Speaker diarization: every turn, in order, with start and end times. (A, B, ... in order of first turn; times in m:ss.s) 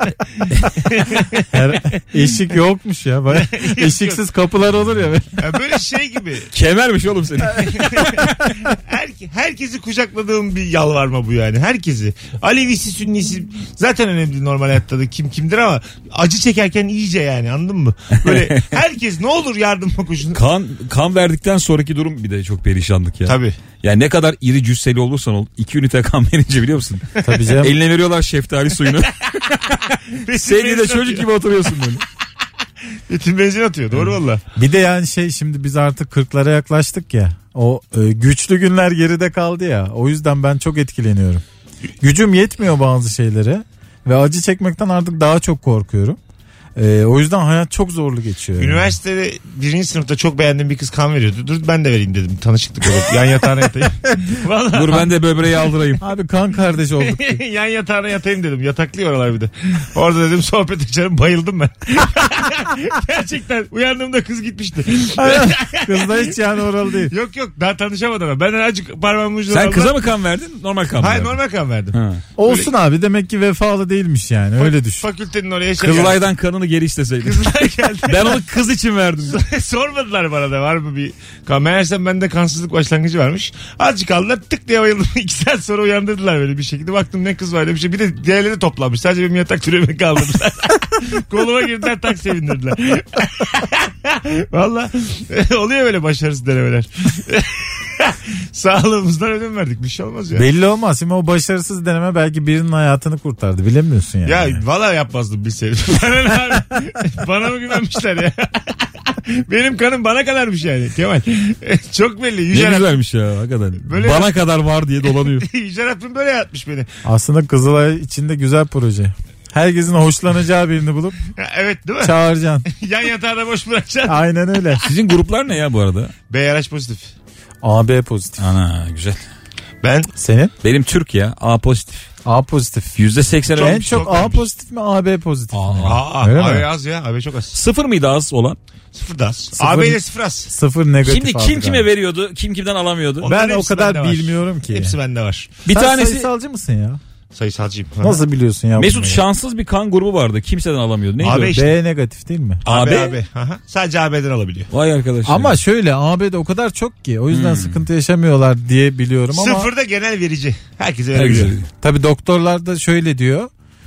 0:00.4-0:01.4 A
0:01.5-0:05.4 B
0:03.3-0:04.2 A
0:05.4-0:06.5 A
0:06.5-0:08.4 C
0:07.6-0:20.4 A
0:18.2-0:18.7 C
0:20.3-0:29.8 C
0:23.2-0:23.6 A
0:27.2-0:27.8 B
0:30.1-0:31.3 A
0:30.3-0:32.0 C
0:33.1-0:34.4 A
0:34.5-0:41.4 B
0:42.0-0:46.2 B
0:46.8-0:48.9 B
0:48.6-0:55.1 A
0:54.7-0:56.0 C
0:56.0-0:57.4 B
0:57.0-1:06.2 A
1:05.2-1:07.1 B
1:07.1-1:09.9 A
1:09.5-1:11.4 C
1:11.0-1:12.7 A
1:11.9-1:12.2 C
1:12.4-1:15.0 B
1:14.6-1:16.2 A
1:15.8-1:19.4 C
1:17.2-1:18.4 A
1:19.3-1:40.4 A
1:40.3-1:44.6 B
1:44.2-1:52.9 A
1:52.5-1:55.4 C
1:53.8-1:54.3 A
1:55.4-1:56.9 A
1:57.0-2:01.2 B
2:01.4-2:04.2 A
2:02.0-2:02.6 B
2:04.1-2:04.8 B
2:04.8-2:06.1 C
2:06.3-2:07.1 A
2:07.6-2:08.4 B
2:08.4-2:09.2 C
2:09.8-2:10.1 A
2:10.2-2:10.5 B
2:10.6-2:12.1 C
2:12.2-2:13.0 B
2:13.0-2:14.1 C
2:13.5-2:14.5 A
2:13.6-2:16.7 B
2:15.5-2:16.0 C
2:15.8-2:17.5 A
2:17.5-2:18.6 C
2:18.9-2:20.5 A
2:19.6-2:21.9 B
2:21.0-2:23.3 C
2:23.2-2:25.5 A
2:23.2-2:25.0 B
2:25.6-2:26.3 C
2:25.7-2:27.0 B
2:27.3-2:28.2 A
2:28.0-2:29.2 B
2:28.8-2:31.5 C
2:31.2-2:31.7 A
2:31.5-2:32.6 B
2:32.6-2:34.7 A
2:32.6-2:33.2 C
2:34.7-2:35.5 C
2:35.2-2:39.7 B
2:37.3-2:37.8 C
2:39.3-2:41.5 A
2:41.1-2:41.7 C
2:41.8-2:43.5 B